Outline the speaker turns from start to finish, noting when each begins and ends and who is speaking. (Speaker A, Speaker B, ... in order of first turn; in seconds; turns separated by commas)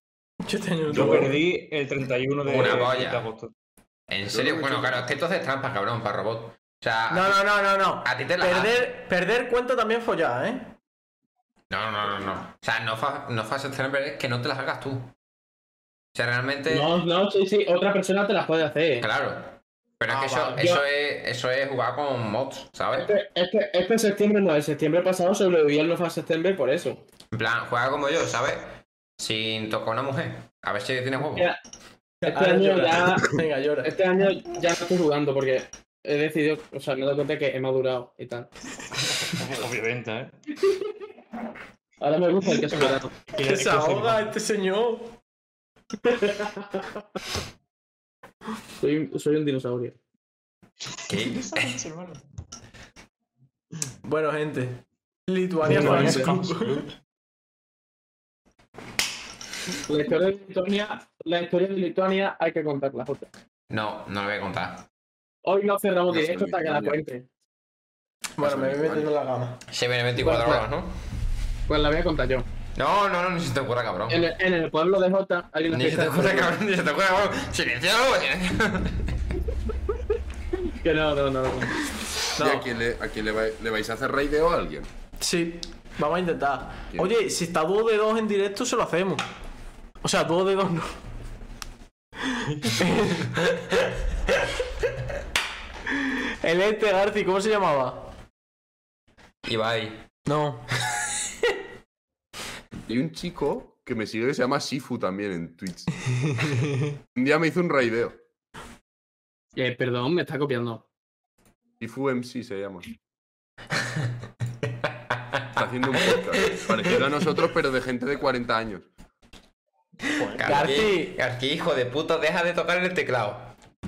Speaker A: 0.4-1.4, Speaker B: 0.9-3.5, Speaker C: 2.4-3.3, Speaker C: 4.1-7.4, Speaker D: 4.3-5.1, Speaker A: 7.1-10.7, Speaker C: 8.0-8.9, Speaker C: 11.7-15.1, Speaker C: 16.1-16.9, Speaker E: 16.7-19.1, Speaker C: 19.0-23.1, Speaker A: 20.1-20.6, Speaker E: 20.5-20.8, Speaker E: 22.9-27.0, Speaker C: 27.3-31.5, Speaker E: 31.2-31.6, Speaker A: 32.2-33.9, Speaker E: 32.2-38.5, Speaker B: 39.0-40.3, Speaker E: 42.0-43.1, Speaker B: 42.6-44.3, Speaker A: 43.4-45.2, Speaker E: 46.0-46.8, Speaker E: 48.8-50.0, Speaker B: 50.8-52.2, Speaker C: 51.1-51.8, Speaker A: 54.0-56.9, Speaker B: 55.6-56.9, Speaker E: 55.7-56.3, Speaker E: 59.9-63.3, Speaker C: 63.7-64.8, Speaker E: 65.4-67.2, Speaker D: 66.1-67.0, Speaker A: 68.4-69.6, Speaker D: 68.4-69.1, Speaker C: 69.7-70.9, Speaker E: 70.1-70.7, Speaker E: 71.7-72.5, Speaker C: 72.7-74.2, Speaker E: 74.1-76.6, Speaker C: 75.7-79.2, Speaker E: 80.6-81.8, Speaker A: 82.3-82.7, Speaker D: 82.4-84.9, Speaker A: 85.2-89.2, Speaker A: 90.0-91.0, Speaker A: 92.7-93.5, Speaker A: 96.0-98.1, Speaker C: 99.4-100.0, Speaker A: 100.2-100.6, Speaker D: 102.8-105.9, Speaker A: 106.4-106.7, Speaker D: 107.1-108.2, Speaker E: 109.5-110.8, Speaker D: 111.8-112.9, Speaker C: 114.7-117.0, Speaker D: 115.5-118.9, Speaker B: 120.0-120.7, Speaker C: 120.2-123.5, Speaker A: 120.4-121.1